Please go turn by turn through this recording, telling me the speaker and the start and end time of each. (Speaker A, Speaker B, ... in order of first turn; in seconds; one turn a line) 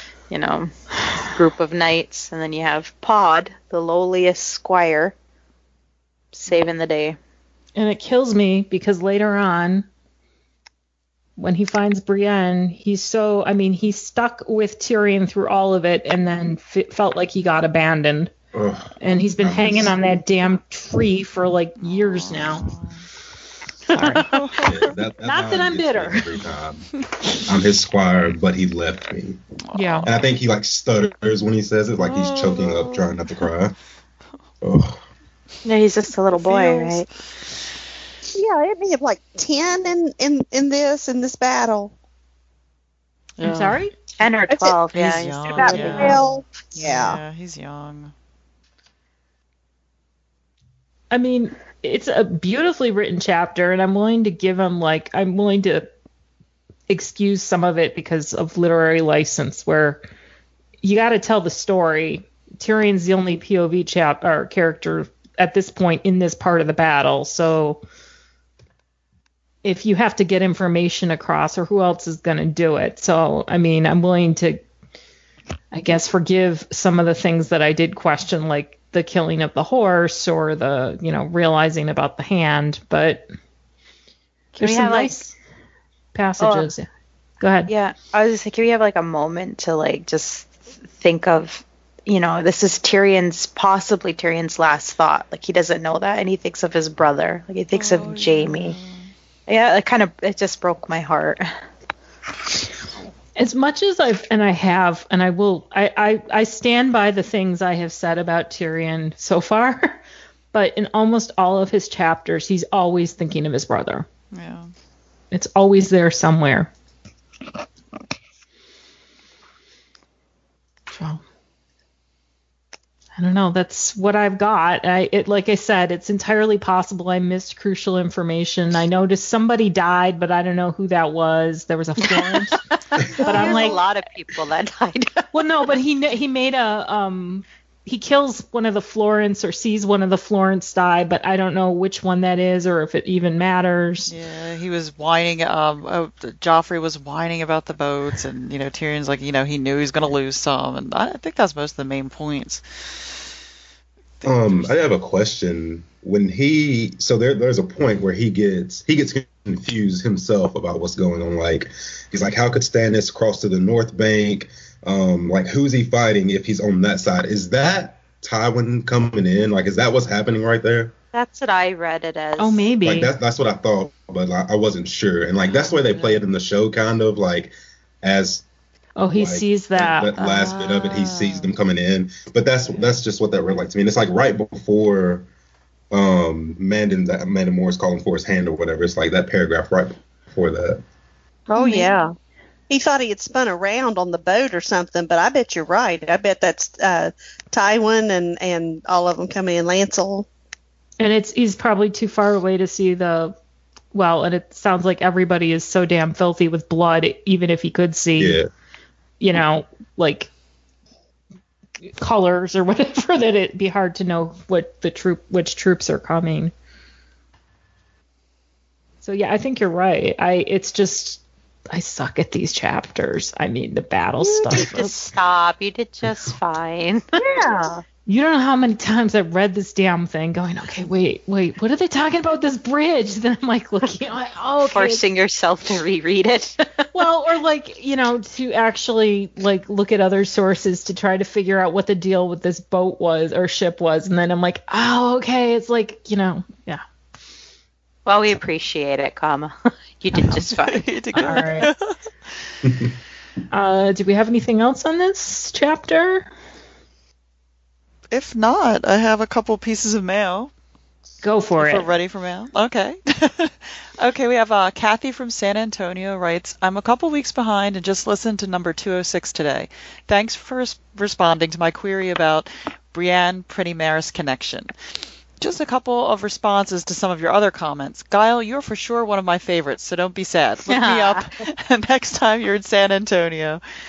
Speaker A: 0.3-5.1
Speaker A: 6.3-7.2
Speaker B: 7.8-9.9
Speaker B: 11.4-18.3
Speaker C: 18.5-19.9
Speaker B: 19.0-22.7
Speaker D: 21.8-23.1
Speaker D: 23.9-24.9
Speaker B: 23.9-24.2
Speaker C: 24.7-26.9
Speaker B: 25.2-26.3
Speaker C: 27.4-29.4
Speaker D: 29.7-30.1
Speaker B: 29.7-30.1
Speaker C: 30.0-33.7
Speaker D: 32.0-33.4
Speaker C: 34.6-35.0
Speaker A: 35.6-37.0
Speaker D: 36.3-37.0
Speaker E: 38.3-41.9
Speaker D: 43.4-43.8
Speaker B: 43.4-43.9
Speaker A: 44.2-46.2
Speaker E: 44.5-44.8
Speaker D: 44.9-48.1
Speaker E: 45.5-47.2
Speaker B: 45.6-46.2
Speaker B: 51.1-55.9
Speaker B: 56.9-60.0
Speaker B: 60.8-67.8
Speaker B: 69.6-74.6
Speaker B: 75.7-83.2
Speaker A: 84.5-85.2
Speaker B: 84.6-85.3
Speaker B: 86.1-86.9
Speaker A: 86.4-86.7
Speaker B: 87.4-87.7
Speaker A: 87.7-98.8
Speaker D: 97.7-99.1
Speaker A: 99.5-101.5
Speaker B: 103.4-110.0
Speaker B: 110.5-114.0
Speaker D: 114.3-114.7
Speaker B: 115.3-116.7
Speaker B: 120.9-121.2
Speaker B: 123.2-132.6
Speaker A: 132.0-135.3
Speaker B: 133.2-133.8
Speaker B: 135.3-144.1
Speaker D: 144.1-152.6
Speaker D: 154.2-154.9
Speaker C: 154.2-170.9
Speaker A: 171.1-172.7
Speaker B: 172.4-173.1
Speaker C: 172.8-177.5
Speaker D: 175.4-176.2
Speaker C: 178.0-178.4
Speaker B: 178.9-180.1
Speaker C: 179.1-185.3
Speaker D: 180.2-181.5
Speaker C: 185.9-190.8
Speaker E: 191.5-192.1
Speaker B: 191.5-191.9
Speaker E: 192.7-200.3
Speaker B: 201.0-203.3
Speaker B: 203.9-208.4
Speaker C: 208.2-208.5
Speaker B: 209.2-210.3
Speaker B: 212.0-216.5
Speaker B: 219.0-225.2
Speaker A: 224.2-227.0
Speaker E: 227.3-227.7
Speaker B: 227.3-235.0
Speaker A: 234.7-236.9
Speaker B: 236.9-246.8
Speaker A: 248.1-251.6
Speaker D: 250.2-251.9
Speaker B: 251.2-251.7
Speaker B: 253.5-256.3
Speaker D: 258.1-260.5
Speaker B: 261.2-261.9
Speaker D: 261.6-274.7
Speaker D: 275.4-283.6
Speaker A: 280.6-281.3